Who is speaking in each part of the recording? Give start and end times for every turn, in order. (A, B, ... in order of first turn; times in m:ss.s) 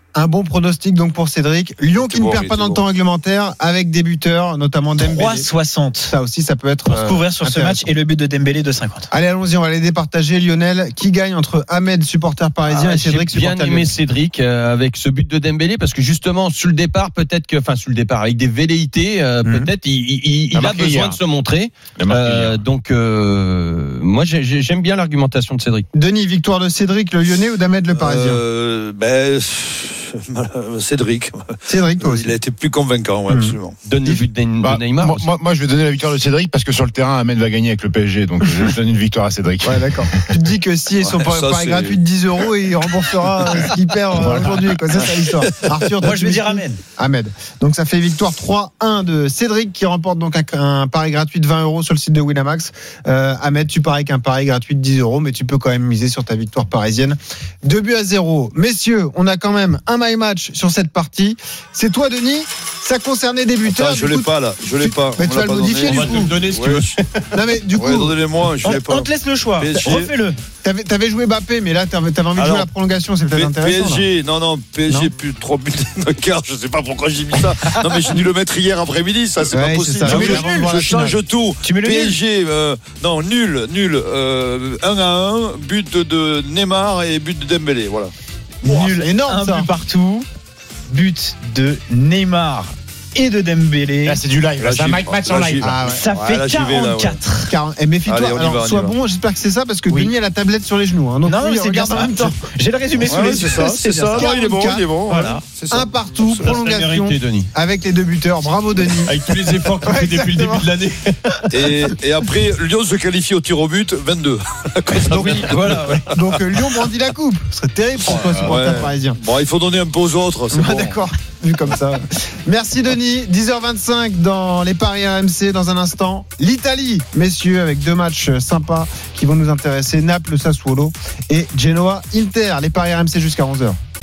0:00.1-0:05.5 A
0:01.9-0:02.8 B
0:05.0-0:06.1 C
0:06.1-0:07.9 A
0:06.9-0:09.1 C
0:09.1-0:13.9 A
0:12.7-0:25.8 D
0:19.4-0:19.7 A
0:20.5-0:21.2 E
0:22.0-0:22.6 E
0:25.9-0:28.4 A
0:27.9-0:33.8 B
0:31.7-0:32.3 A
0:33.3-0:33.5 A
0:33.8-0:35.2 D
0:34.6-0:40.3 E
0:39.6-1:06.3 A
0:41.0-0:42.0 B
0:44.1-0:44.7 E
0:44.9-0:45.6 B
0:46.0-0:46.8 C
1:03.6-1:07.0 B
1:05.8-1:07.2 D
1:07.3-1:08.2 A
1:07.7-1:10.1 B
1:08.6-1:10.4 C
1:10.6-1:14.0 A
1:12.3-1:12.7 B
1:13.3-1:28.1 B
1:19.5-1:21.2 A
1:20.0-1:20.7 C
1:21.6-1:22.2 C
1:28.6-1:30.2 C
1:28.6-1:29.7 A
1:30.9-1:34.2 C
1:34.0-1:35.8 E
1:34.6-1:37.2 B
1:35.6-1:36.0 A
1:35.9-1:37.5 C
1:37.5-1:42.4 A
1:38.0-1:39.0 B
1:41.2-1:44.3 C
1:43.0-1:46.5 B
1:43.2-1:43.5 A
1:44.1-1:44.9 A
1:45.1-1:45.4 C
1:45.7-1:50.7 A
1:46.4-1:47.5 D
1:49.0-1:51.4 D
1:51.5-1:56.1 B
1:55.0-1:56.1 D
1:56.1-1:59.2 A
1:58.3-2:01.0 B
2:00.5-2:13.8 A